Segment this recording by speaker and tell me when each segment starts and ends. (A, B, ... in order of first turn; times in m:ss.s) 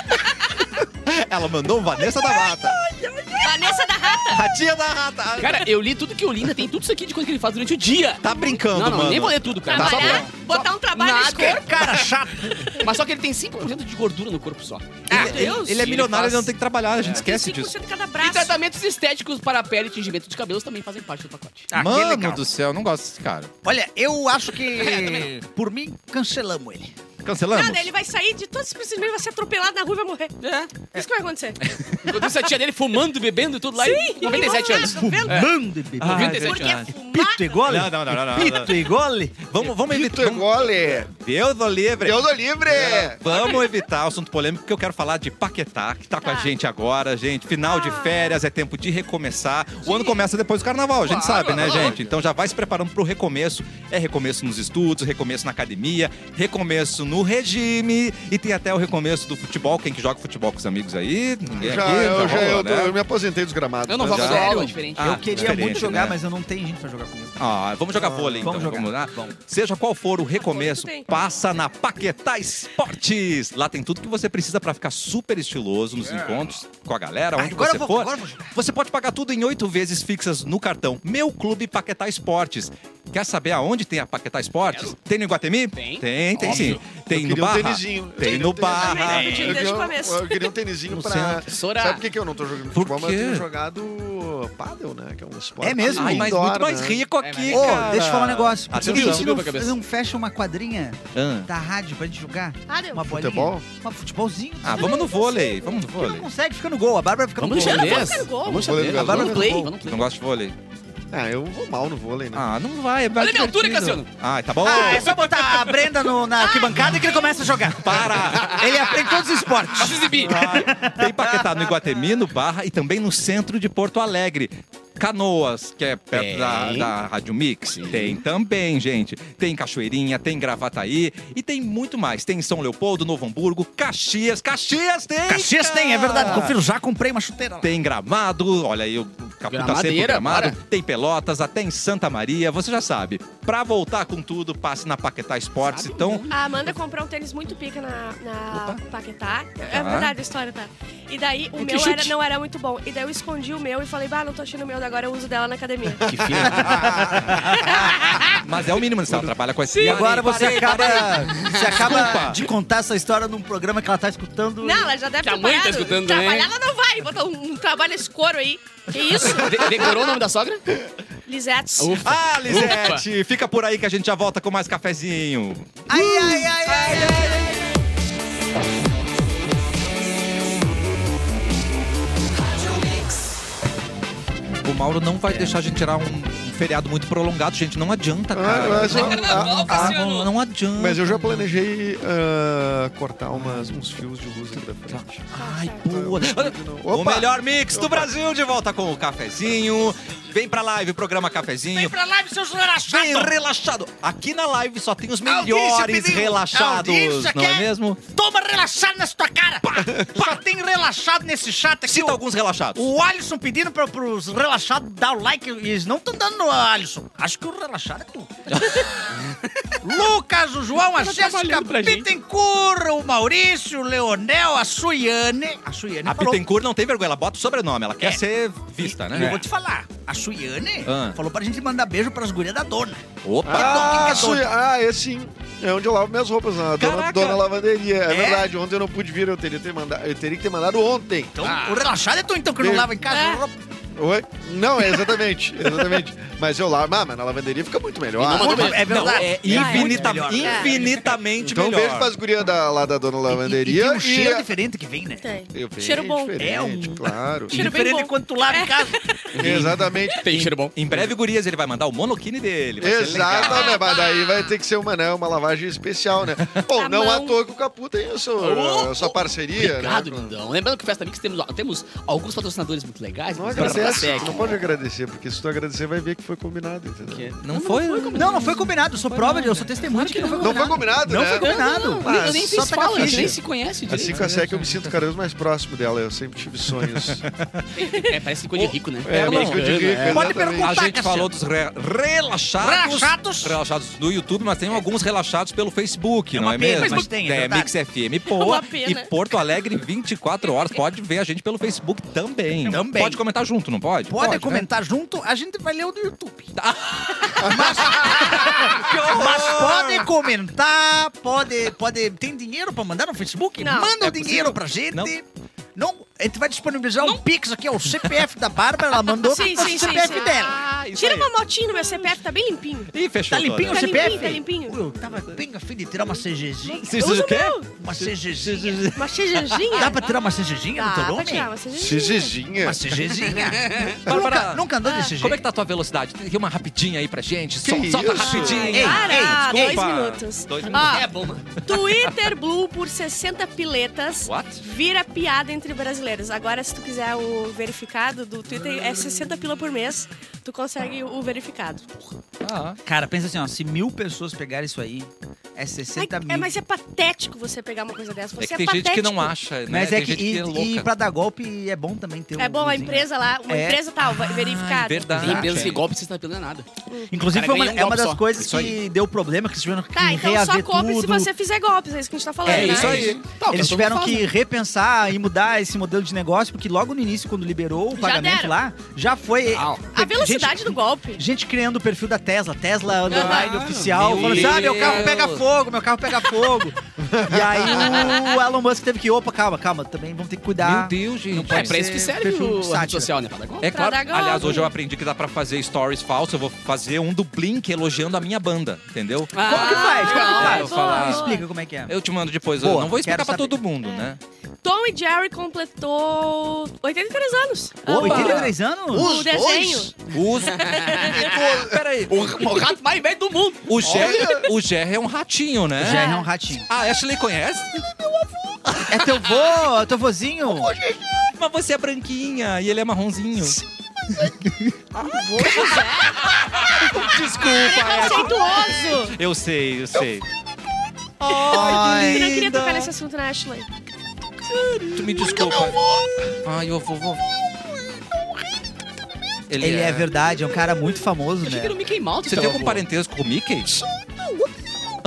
0:00.8-0:03.6 A
0:03.4-0:04.4 B
0:04.3-0:05.7 A
0:05.4-0:12.0 C
0:08.2-0:10.3 A
0:09.7-0:11.8 B
0:11.3-0:12.7 D
0:12.7-0:17.2 C
0:15.1-0:17.7 A
0:15.1-0:15.8 B
0:17.0-0:18.6 B
0:18.2-0:21.7 C
0:21.7-0:22.5 D
0:21.8-0:23.5 A
0:23.6-0:27.0 D
0:24.7-0:25.3 C
0:27.2-0:27.9 A
0:27.5-0:30.4 B
0:30.4-0:30.7 C
0:30.9-0:31.6 B
0:32.0-0:36.8 C
0:33.8-0:35.5 B
0:34.3-0:39.5 D
0:36.0-0:36.9 A
0:36.3-0:37.7 B
0:37.6-0:38.8 A
0:39.4-1:03.0 A
0:39.8-0:41.1 E
0:42.0-0:43.2 E
0:43.3-0:43.6 B
0:46.2-0:46.5 B
0:47.6-0:48.4 B
0:49.8-0:50.2 B
0:51.1-0:51.9 C
0:51.4-0:52.0 E
1:01.6-1:04.8 E
1:03.9-1:05.4 C
1:04.0-1:06.2 A
1:04.5-1:09.4 D
1:05.3-1:05.6 E
1:07.4-1:29.6 A
1:10.4-1:11.1 B
1:16.0-1:16.5 C
1:17.4-1:18.6 D
1:24.7-1:25.0 C
1:25.8-1:26.8 C
1:26.4-1:37.0 E
1:28.6-1:30.5 B
1:29.1-1:29.6 D
1:31.0-1:31.3 A
1:31.0-1:31.4 D
1:31.5-1:32.0 C
1:32.7-1:33.5 A
1:35.6-1:36.4 D
1:35.9-1:39.3 A
1:37.2-1:38.0 C
1:37.5-1:45.1 D
1:38.7-1:39.8 C
1:41.1-1:41.5 A
1:42.7-1:43.0 B
1:43.0-1:43.6 E
1:44.6-1:46.3 A
1:44.8-1:45.8 B
1:45.9-1:48.3 D
1:47.4-1:50.0 C
1:47.6-1:48.8 B
1:48.5-1:49.7 E
1:49.0-1:49.7 D
1:49.8-1:50.6 A
1:51.1-1:52.5 E
1:52.3-1:55.1 A
1:53.2-1:54.1 C
1:54.6-2:01.8 D
1:54.7-1:55.9 C
1:56.4-1:57.6 B
1:57.8-1:58.6 A
1:58.3-1:59.1 C
1:59.7-2:00.6 C
2:00.1-2:16.6 A
2:06.1-2:06.9 C
2:07.7-2:08.2 C
2:15.3-2:17.7 D
2:16.2-2:16.5 C
2:17.6-2:26.2 A
2:19.5-2:20.6 C
2:25.6-2:26.5 C
2:26.3-2:36.5 B
2:28.5-2:28.8 A
2:29.7-2:30.1 A
2:31.6-2:32.1 C
2:36.0-2:37.3 C
2:36.2-2:37.2 E
2:36.5-2:38.2 D
2:37.4-2:38.4 B
2:38.3-2:42.4 A
2:39.7-2:41.0 B
2:39.8-2:45.0 D
2:41.3-2:41.7 C
2:44.6-2:50.0 B
2:45.2-2:46.5 C
2:49.1-2:50.6 C
2:51.3-2:52.0 B
2:51.8-2:53.0 C
2:52.0-2:56.2 A
2:55.9-2:57.8 D
2:56.7-2:57.6 A
3:04.6-3:11.5 A
3:08.3-3:10.2 E
3:08.9-3:10.2 C
3:10.7-3:15.3 E
3:13.3-3:13.8 A
3:14.9-3:21.9 A
3:15.3-3:15.9 B
3:15.8-3:18.1 E
3:21.7-3:23.4 D
3:22.9-3:28.0 A
3:25.2-3:32.2 D
3:31.9-3:32.9 A
3:32.8-3:38.3 D
3:38.5-3:38.9 A
3:39.8-3:46.4 D
3:40.9-3:42.1 C
3:46.1-3:49.4 A
3:48.8-3:54.5 D
3:49.1-3:49.4 C
3:50.8-3:51.2 A
3:53.2-3:54.4 A
3:53.4-4:01.4 E
3:56.7-3:57.4 A
3:58.1-3:58.5 D
4:01.4-4:03.6 D
4:01.4-4:01.8 C
4:02.6-4:02.9 E
4:03.1-4:03.4 B
4:03.9-4:08.8 E
4:08.2-4:09.3 C
4:08.4-4:10.9 D
4:08.7-4:12.1 A
4:09.5-4:10.8 B
4:11.4-4:14.5 E
4:13.3-4:15.3 D
4:15.2-4:16.4 B
4:15.5-4:17.6 E
4:16.4-4:19.1 D
4:17.5-4:19.4 B
4:19.4-4:21.1 C
4:19.4-4:20.2 E
4:19.4-4:23.8 A
4:22.8-4:30.4 E
4:23.3-4:24.5 B
4:26.8-4:27.4 B
4:28.4-4:34.6 C
4:33.4-4:37.4 E
4:33.6-4:34.4 A
4:37.1-4:44.3 C
4:37.4-4:38.5 A
4:37.8-4:38.5 B
4:38.2-4:43.4 D
4:39.4-4:39.9 A
4:40.4-4:47.2 E
4:44.0-4:45.0 A
4:46.9-4:47.8 A
4:47.8-4:48.0 B
4:47.8-4:50.3 C
4:48.6-4:49.9 A
4:49.0-4:50.8 E
4:50.1-4:51.3 D
4:50.6-5:04.6 A
4:52.6-4:53.6 D
4:56.3-4:57.7 D
4:58.3-4:59.1 B
5:02.6-5:03.2 D
5:04.1-5:06.5 D
5:06.6-5:10.1 A
5:07.4-5:15.2 D
5:13.6-5:13.9 B
5:14.0-5:15.1 A
5:15.8-5:20.6 D
5:19.2-5:22.9 B
5:19.8-5:21.3 A
5:22.9-5:24.4 A
5:23.3-5:31.5 D
5:23.7-5:24.8 B
5:26.6-5:27.7 B
5:26.8-5:28.9 A
5:29.0-5:30.1 B
5:30.8-5:32.3 B
5:31.7-5:32.9 E
5:32.6-5:35.4 D
5:33.4-5:34.0 C
5:34.0-5:41.1 A
5:37.6-5:39.0 E
5:38.1-5:41.1 B
5:38.7-5:39.8 D
5:40.7-5:41.5 C
5:41.6-5:52.2 B
5:41.7-5:42.1 A
5:44.2-5:44.6 A
5:52.4-5:52.8 A
5:52.9-5:56.5 D
5:56.0-5:59.4 B
5:58.4-6:00.9 A
5:59.7-6:03.8 D
6:02.4-6:05.4 B
6:04.0-6:05.8 A
6:05.2-6:05.8 D
6:05.2-6:06.7 C
6:06.9-6:07.1 B
6:07.1-6:11.3 D
6:07.3-6:08.2 C
6:08.4-6:08.8 A
6:10.0-6:13.1 B
6:12.5-6:13.2 A
6:12.5-6:14.3 C
6:12.5-6:33.1 D
6:18.0-6:18.6 B
6:19.5-6:19.8 C
6:19.9-6:21.2 B
6:23.1-6:25.1 C
6:23.1-6:25.4 A
6:27.0-6:27.8 E
6:27.8-6:28.2 B
6:30.6-6:31.8 A
6:31.5-6:33.8 C
6:33.6-6:41.3 A
6:33.7-6:34.7 B
6:39.3-6:40.7 C
6:39.5-6:41.4 B
6:39.5-6:41.9 D
6:41.9-6:44.2 A
6:42.6-6:43.6 D
6:44.6-6:51.2 B
6:47.9-6:49.2 D
6:48.0-6:48.5 A
6:48.2-6:50.1 E
6:50.1-6:51.0 A
6:50.6-6:51.4 C
6:51.0-6:52.5 E
6:51.6-6:52.3 A
6:52.1-6:54.2 C
6:53.7-6:56.1 A
6:53.8-6:54.6 E
6:55.8-6:56.7 D
6:55.8-6:56.3 B
6:56.7-6:57.8 A
6:57.9-6:58.9 E
6:58.9-7:00.8 D
7:00.5-7:01.3 E
7:01.4-7:03.6 A
7:04.1-7:04.4 E
7:04.4-7:05.8 A
7:05.0-7:07.1 B
7:05.1-7:05.9 E
7:06.3-7:10.2 A
7:07.6-7:09.2 B
7:11.2-7:12.9 A
7:11.3-7:12.5 D
7:11.3-7:13.7 B
7:14.9-7:15.8 A
7:15.3-7:16.4 E
7:16.4-7:17.2 A
7:19.5-7:20.1 A
7:19.6-7:21.8 D
7:21.4-7:22.9 C
7:22.3-7:23.8 A
7:23.8-7:24.5 E